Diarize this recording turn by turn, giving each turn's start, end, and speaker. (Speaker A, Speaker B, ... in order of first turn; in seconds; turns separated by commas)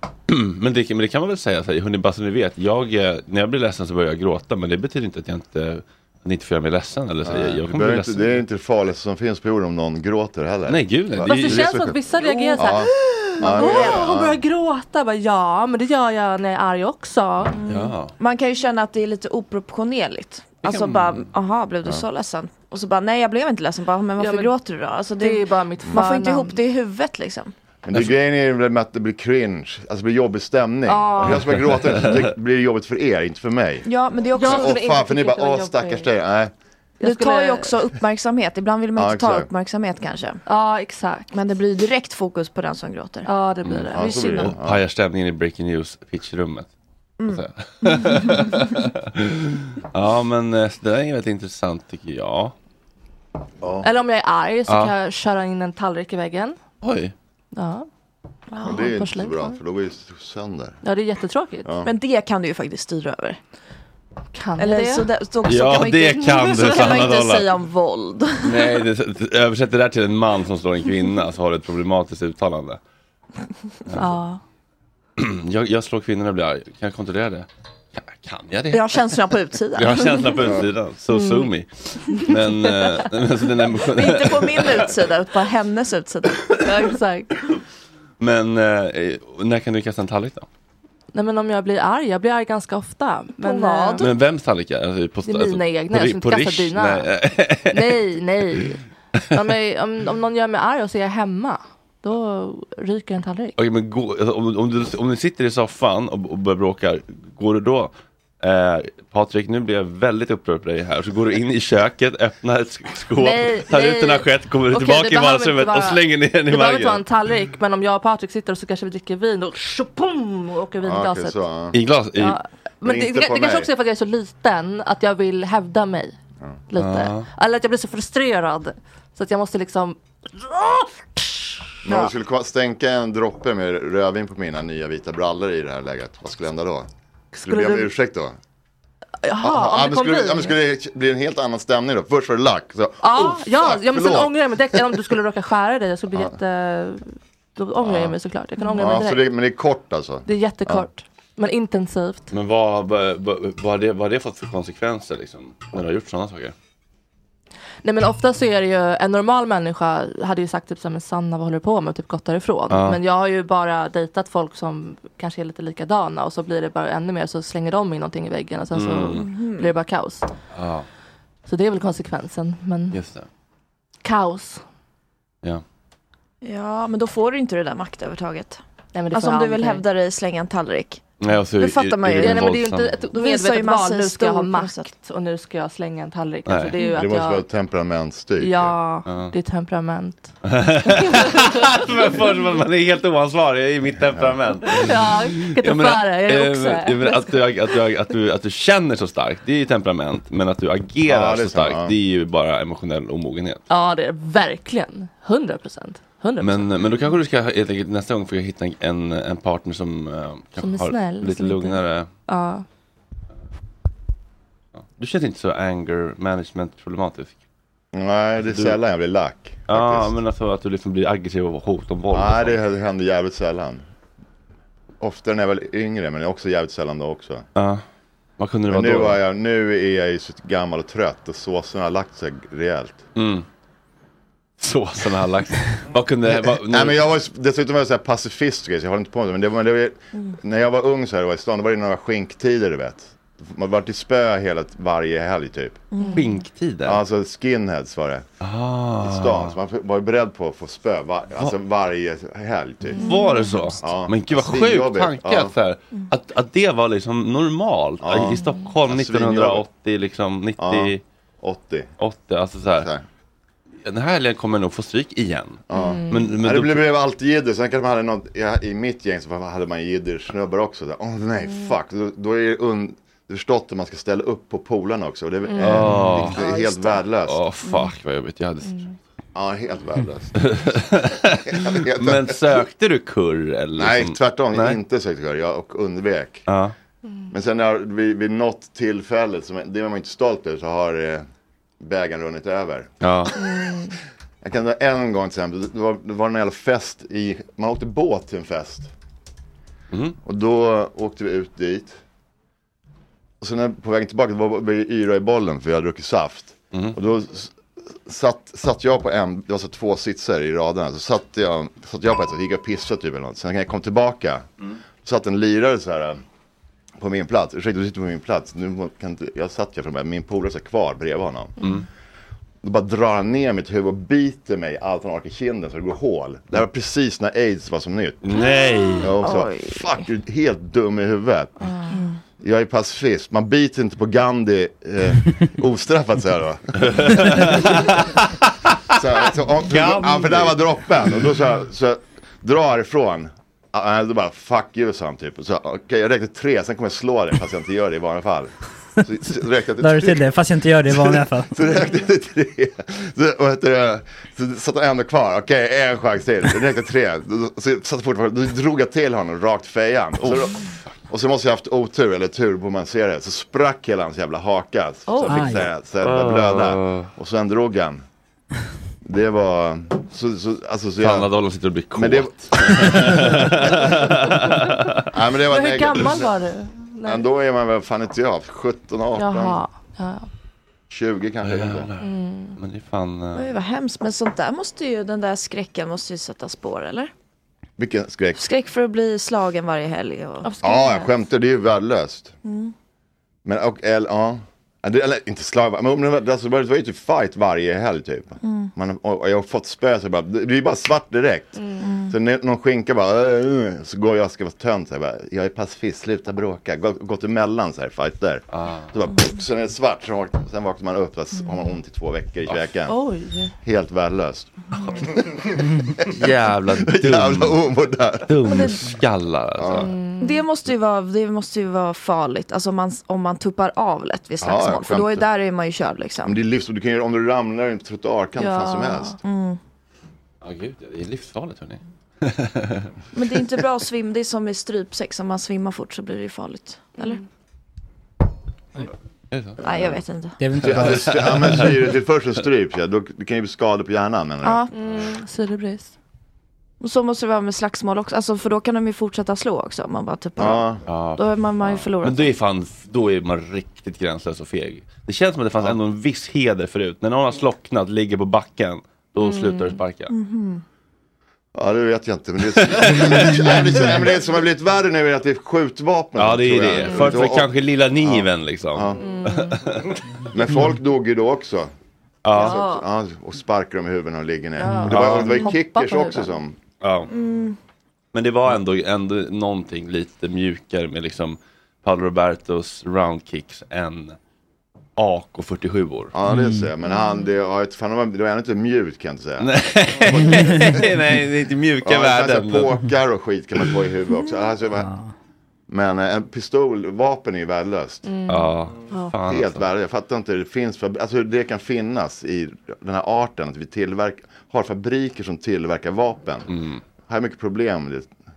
Speaker A: 0.3-8.4, Speaker B: 7.2-12.0, Speaker A: 10.7-11.8, Speaker C: 11.2-17.6, Speaker D: 12.2-12.7, Speaker B: 12.6-14.4, Speaker D: 13.4-14.1, Speaker D: 17.5-27.5, Speaker A: 17.6-18.1, Speaker A: 20.6-21.3, Speaker C: 24.2-24.5, Speaker C: 25.2-26.6, Speaker B: 27.8-33.9, Speaker C: 30.9-31.5, Speaker A: 31.2-32.3, Speaker D: 33.8-34.8, Speaker C: 34.3-36.1, Speaker B: 34.4-36.5, Speaker C: 37.0-37.7, Speaker D: 37.0-40.4, Speaker B: 39.0-39.5, Speaker C: 40.5-41.3, Speaker D: 41.3-43.3, Speaker C: 43.2-44.5, Speaker A: 43.6-46.7, Speaker B: 43.9-44.8, Speaker D: 47.2-48.5, Speaker A: 47.3-52.5, Speaker B: 53.6-53.9, Speaker C: 53.8-56.6, Speaker A: 54.7-54.9, Speaker A: 56.8-57.1, Speaker C: 57.5-57.9, Speaker D: 58.5-58.9, Speaker B: 58.6-60.8, Speaker C: 58.6-59.6, Speaker C: 60.8-61.7, Speaker B: 61.6-61.9, Speaker D: 61.8-63.4, Speaker C: 64.3-65.1, Speaker D: 64.6-68.8, Speaker A: 65.4-67.5, Speaker A: 68.4-72.8, Speaker C: 73.9-74.4, Speaker A: 75.2-85.0, Speaker D: 78.7-80.5, Speaker C: 81.1-81.5, Speaker C: 82.1-83.1, Speaker D: 83.8-86.8, Speaker C: 86.6-87.3, Speaker A: 88.2-90.5, Speaker C: 91.1-94.1, Speaker D: 93.4-94.1, Speaker A: 94.0-99.4, Speaker C: 95.2-97.1, Speaker C: 97.7-98.8, Speaker C: 99.3-103.5, Speaker A: 103.6-117.0, Speaker C: 113.2-121.4, Speaker B: 120.8-121.8, Speaker A: 121.7-122.4, Speaker C: 122.1-126.2, Speaker B: 122.8-123.7, Speaker C: 126.7-131.7, Speaker A: 126.8-127.3, Speaker B: 131.8-136.9, Speaker D: 131.9-132.1, Speaker C: 137.3-137.9, Speaker B: 137.4-138.3, Speaker C: 139.2-140.6, Speaker B: 139.4-145.2, Speaker C: 143.0-149.2, Speaker B: 147.8-148.1, Speaker B: 148.7-150.9, Speaker C: 150.2-152.3, Speaker A: 152.3-156.5, Speaker C: 157.8-170.3, Speaker A: 162.7-163.0, Speaker A: 168.7-169.3, Speaker D: 169.2-169.8, Speaker A: 170.5-170.9, Speaker C: 171.5-173.0, Speaker A: 172.9-173.2, Speaker C: 174.0-174.6, Speaker D: 176.4-178.6, Speaker C: 178.9-179.8, Speaker D: 179.1-181.0, Speaker A: 181.2-183.0, Speaker D: 181.6-182.6, Speaker C: 182.2-187.4, Speaker D: 183.1-184.9, Speaker A: 186.5-186.7, Speaker B: 186.9-188.7, Speaker C: 188.4-190.3, Speaker A: 189.1-189.3, Speaker A: 190.4-203.6, Speaker C: 190.9-191.5, Speaker C: 194.7-197.8, Speaker B: 201.1-201.9, Speaker C: 203.7-206.8, Speaker A: 206.4-212.1, Speaker C: 210.6-212.6, Speaker A: 215.0-217.4, Speaker B: 217.9-220.1, Speaker A: 218.4-218.8, Speaker A: 219.7-222.6, Speaker B: 222.1-223.8, Speaker B: 225.0-227.4, Speaker A: 227.6-227.8, Speaker A: 228.4-229.2, Speaker B: 228.7-233.0, Speaker A: 233.1-233.4, Speaker A: 234.6-237.0, Speaker B: 236.2-245.8, Speaker D: 245.9-246.2, Speaker C: 246.0-246.4, Speaker A: 246.1-247.0, Speaker B: 246.8-248.2, Speaker A: 248.4-249.5, Speaker B: 249.0-253.0, Speaker C: 252.9-253.8, Speaker A: 253.0-261.0, Speaker B: 253.8-255.5, Speaker B: 258.0-259.6, Speaker C: 258.4-258.7, Speaker B: 260.6-261.9, Speaker A: 262.0-262.9, Speaker B: 262.8-263.0, Speaker A: 263.8-266.9, Speaker B: 265.7-277.4, Speaker C: 265.7-266.3, Speaker C: 275.4-275.9, Speaker A: 275.6-276.4, Speaker D: 276.3-277.0, Speaker A: 277.2-278.9, Speaker C: 277.7-277.9, Speaker C: 278.6-278.9, Speaker B: 279.3-280.8, Speaker A: 280.4-284.8, Speaker B: 281.5-282.6, Speaker B: 283.8-286.5, Speaker A: 286.5-286.7, Speaker C: 287.1-287.3, Speaker B: 287.3-291.2, Speaker B: 291.8-293.0, Speaker A: 293.0-293.4, Speaker C: 293.4-293.9, Speaker B: 294.4-298.9, Speaker A: 299.9-300.2, Speaker B: 300.2-302.0, Speaker B: 303.4-314.5, Speaker B: 315.0-316.2, Speaker B: 317.0-321.5, Speaker B: 322.6-328.2, Speaker A: 328.2-329.1, Speaker B: 329.0-331.5, Speaker D: 329.2-330.0, Speaker C: 331.6-332.0, Speaker D: 331.9-332.2, Speaker B: 332.4-337.9, Speaker A: 336.8-339.0, Speaker B: 338.9-368.0, Speaker A: 339.6-340.7, Speaker E: 349.8-351.6, Speaker A: 360.2-360.7, Speaker C: 365.1-365.5, Speaker E: 365.2-365.6, Speaker A: 366.0-367.1, Speaker B: 369.0-371.3, Speaker A: 371.0-375.0, Speaker B: 371.9-374.4, Speaker B: 375.1-376.3, Speaker C: 375.4-377.2, Speaker B: 377.0-379.6, Speaker C: 379.1-380.3, Speaker B: 380.9-381.9, Speaker A: 381.4-383.5, Speaker C: 382.0-382.6, Speaker D: 383.3-387.1, Speaker B: 387.8-388.4, Speaker D: 388.4-390.6, Speaker C: 390.4-391.1, Speaker B: 390.6-392.3, Speaker D: 392.4-392.7, Speaker B: 393.4-413.0, Speaker D: 398.4-398.7, Speaker C: 401.6-401.8, Speaker D: 401.8-402.1, Speaker A: 408.5-408.9, Speaker C: 412.9-413.5, Speaker B: 413.6-418.7, Speaker A: 416.1-417.6, Speaker A: 418.2-419.9, Speaker B: 419.6-419.9, Speaker C: 419.7-420.4, Speaker D: 420.2-426.4, Speaker B: 424.4-425.3, Speaker B: 426.2-429.1, Speaker C: 428.4-429.2, Speaker D: 429.2-429.6, Speaker A: 430.4-432.9, Speaker D: 433.1-437.2, Speaker A: 439.3-439.6, Speaker D: 439.6-440.4, Speaker B: 439.6-440.0, Speaker E: 440.4-441.7, Speaker B: 440.6-444.7, Speaker A: 440.8-441.5, Speaker D: 444.4-444.7, Speaker C: 444.7-445.9, Speaker D: 446.8-452.3, Speaker B: 450.4-450.8, Speaker A: 450.9-460.1, Speaker C: 459.2-459.8, Speaker D: 460.1-460.6, Speaker B: 461.5-469.0, Speaker A: 462.6-463.9, Speaker A: 466.1-470.0, Speaker C: 466.9-467.2, Speaker C: 468.9-469.6, Speaker B: 470.3-471.7, Speaker A: 472.2-472.6, Speaker B: 472.3-476.6, Speaker C: 472.3-472.9, Speaker C: 474.6-476.4, Speaker A: 474.9-475.4, Speaker A: 476.8-477.1, Speaker D: 477.1-477.6, Speaker A: 478.1-484.1, Speaker A: 485.0-486.1, Speaker B: 486.1-490.9, Speaker E: 486.3-486.7, Speaker A: 489.4-492.8, Speaker B: 491.8-494.9, Speaker E: 494.8-495.1, Speaker B: 495.7-498.0, Speaker C: 498.0-499.1, Speaker A: 498.3-499.6, Speaker B: 499.2-506.5, Speaker A: 506.5-506.8, Speaker B: 507.1-508.1